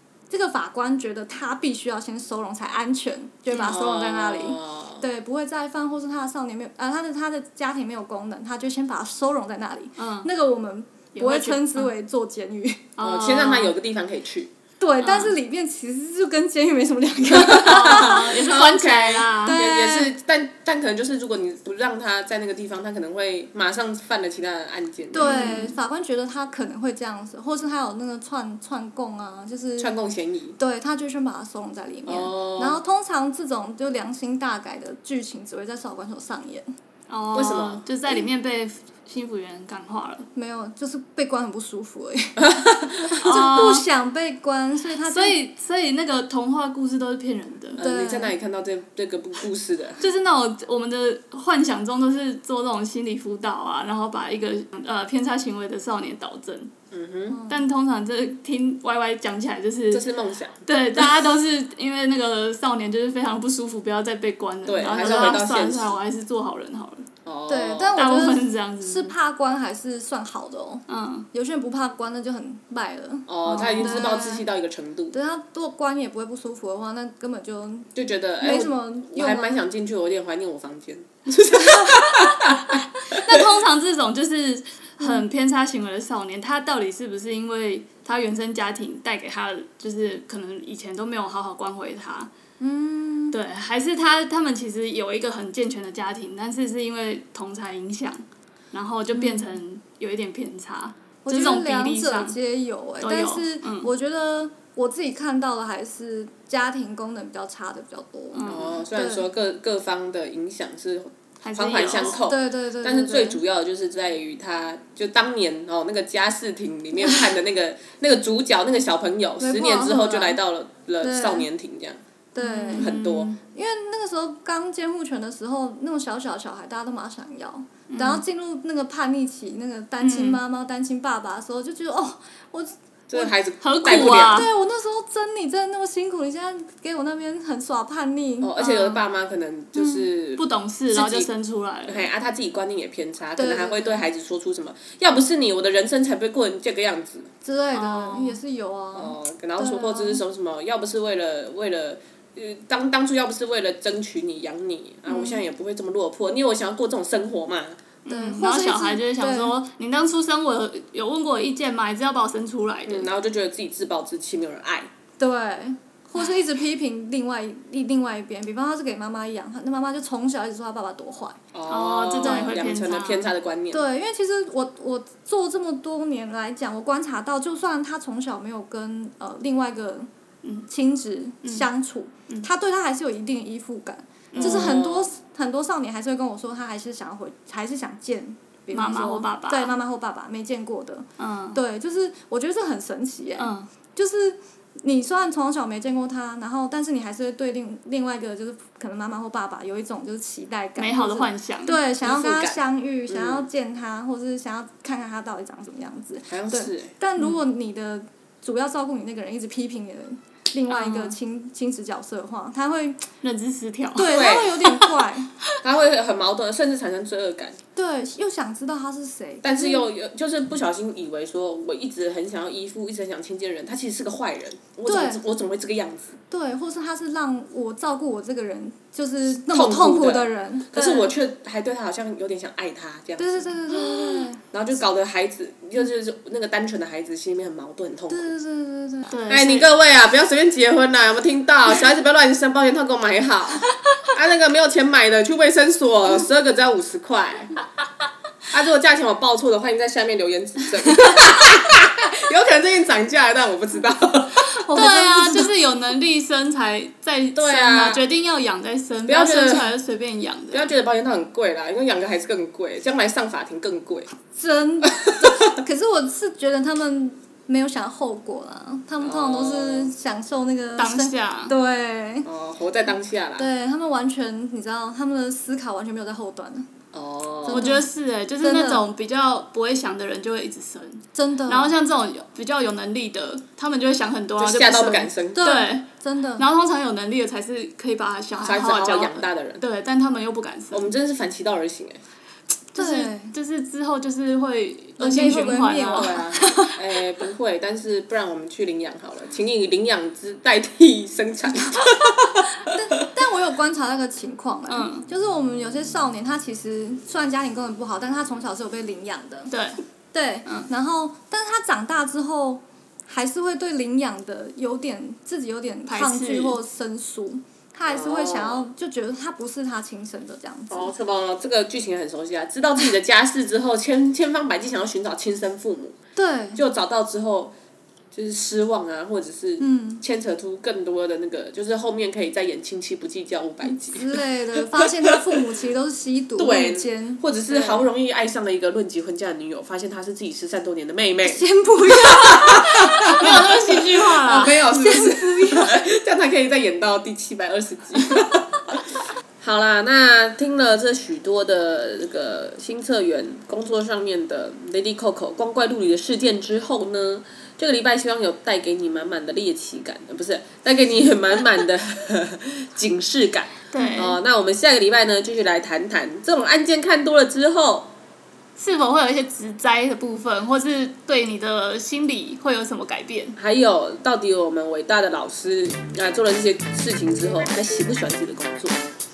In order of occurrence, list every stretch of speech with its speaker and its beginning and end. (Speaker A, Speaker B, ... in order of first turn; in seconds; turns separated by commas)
Speaker A: 0.3-12.9, Speaker B: 3.5-5.0, Speaker C: 10.0-10.3, Speaker C: 11.1-11.9, Speaker C: 13.0-13.7, Speaker B: 13.0-14.5, Speaker A: 14.8-18.2, Speaker C: 15.0-15.3, Speaker B: 17.3-25.4, Speaker C: 17.4-19.6, Speaker A: 19.4-20.1, Speaker A: 25.1-29.9, Speaker C: 25.2-25.8, Speaker B: 29.8-30.6, Speaker A: 30.6-36.7, Speaker B: 32.0-32.8, Speaker C: 37.1-40.3, Speaker B: 37.3-37.8, Speaker A: 40.3-45.4, Speaker B: 42.4-43.1, Speaker C: 43.1-43.8, Speaker C: 45.1-47.8, Speaker B: 47.8-50.0, Speaker A: 47.8-48.3, Speaker C: 50.0-56.7, Speaker B: 56.9-57.4, Speaker A: 57.3-57.6, Speaker C: 57.5-60.0, Speaker B: 59.9-61.0, Speaker C: 60.6-67.1, Speaker B: 64.7-66.0, Speaker B: 67.2-68.0, Speaker A: 67.5-74.4, Speaker C: 68.0-69.1, Speaker C: 70.9-71.3, Speaker B: 73.3-75.1, Speaker C: 73.4-74.1, Speaker A: 75.1-79.6, Speaker B: 77.9-83.4, Speaker A: 81.5-81.9, Speaker C: 83.0-92.3, Speaker A: 85.0-85.2, Speaker A: 92.6-93.3, Speaker C: 93.3-102.4, Speaker A: 99.1-99.6, Speaker A: 101.2-109.2, Speaker C: 103.0-103.9, Speaker C: 108.3-108.8, Speaker B: 108.5-122.0, Speaker C: 111.4-112.2, Speaker A: 112.2-113.4, Speaker A: 119.4-120.4, Speaker A: 121.0-121.5, Speaker A: 122.3-122.9, Speaker C: 122.4-123.4, Speaker B: 122.8-123.3, Speaker A: 123.5-133.3, Speaker C: 127.9-128.2, Speaker C: 130.0-130.4, Speaker B: 133.1-134.5, Speaker C: 133.6-134.5, Speaker A: 133.8-138.5, Speaker B: 138.4-141.3, Speaker C: 138.6-139.0, Speaker C: 140.4-142.1, Speaker B: 141.9-147.3, Speaker A: 143.4-144.0, Speaker A: 147.4-150.2, Speaker C: 147.7-148.4, Speaker B: 148.9-157.8, Speaker A: 155.1-155.4, Speaker C: 158.1-163.1, Speaker A: 158.1-159.5, Speaker B: 162.8-164.9, Speaker A: 165.2-171.4, Speaker B: 171.5-173.8, Speaker C: 171.7-173.3, Speaker A: 172.2-172.5, Speaker A: 173.7-180.1, Speaker C: 180.4-180.7, Speaker A: 180.7-213.1, Speaker C: 184.3-184.8, Speaker B: 184.3-185.1, Speaker C: 188.7-189.7, Speaker C: 191.2-191.6, Speaker C: 193.4-193.7, Speaker C: 200.8-201.8, Speaker B: 202.0-203.4, Speaker B: 206.3-206.9, Speaker C: 210.7-211.2, Speaker C: 213.2-215.6, Speaker A: 213.9-215.3, Speaker B: 214.1-214.6, Speaker B: 215.6-217.6, Speaker A: 217.8-219.9, Speaker B: 219.4-226.2, Speaker A: 224.8-225.2, Speaker A: 226.3-231.1, Speaker B: 229.5-233.8, Speaker A: 233.2-234.4, Speaker B: 234.4-238.3, Speaker A: 238.1-239.1, Speaker C: 239.1-239.7, Speaker B: 239.3-247.6, Speaker B: 248.5-254.7, Speaker A: 254.7-255.5, Speaker C: 254.7-260.7, Speaker B: 257.3-258.0, Speaker B: 259.1-259.7, Speaker B: 260.5-264.1, Speaker A: 264.3-272.3, Speaker B: 264.9-265.6, Speaker B: 269.0-269.9, Speaker C: 270.8-271.5, Speaker B: 272.2-273.5, Speaker A: 273.4-276.7, Speaker B: 276.9-277.8, Speaker A: 277.4-277.9, Speaker C: 277.5-285.9, Speaker A: 278.4-278.8, Speaker A: 281.1-281.7, Speaker B: 284.4-285.4, Speaker A: 285.3-286.4, Speaker C: 286.4-290.9, Speaker B: 288.4-289.6, Speaker B: 290.7-292.0, Speaker C: 292.7-296.2, Speaker A: 292.8-293.3, Speaker A: 295.0-296.8, Speaker B: 295.9-303.0, Speaker A: 302.6-309.5, Speaker C: 304.7-305.1, Speaker C: 309.5-309.8, Speaker A: 310.1-320.9, Speaker C: 315.9-316.6, Speaker B: 317.9-318.7, Speaker B: 320.7-325.9, Speaker A: 326.1-326.6, Speaker B: 326.5-327.5, Speaker B: 328.1-335.3, Speaker A: 329.6-330.0, Speaker A: 333.9-337.8, Speaker B: 336.4-348.9, Speaker A: 341.2-343.6, Speaker C: 343.0-344.6, Speaker A: 344.4-345.8, Speaker B: 349.4-367.9, Speaker C: 363.7-364.2, Speaker C: 368.6-373.4, Speaker B: 373.4-378.8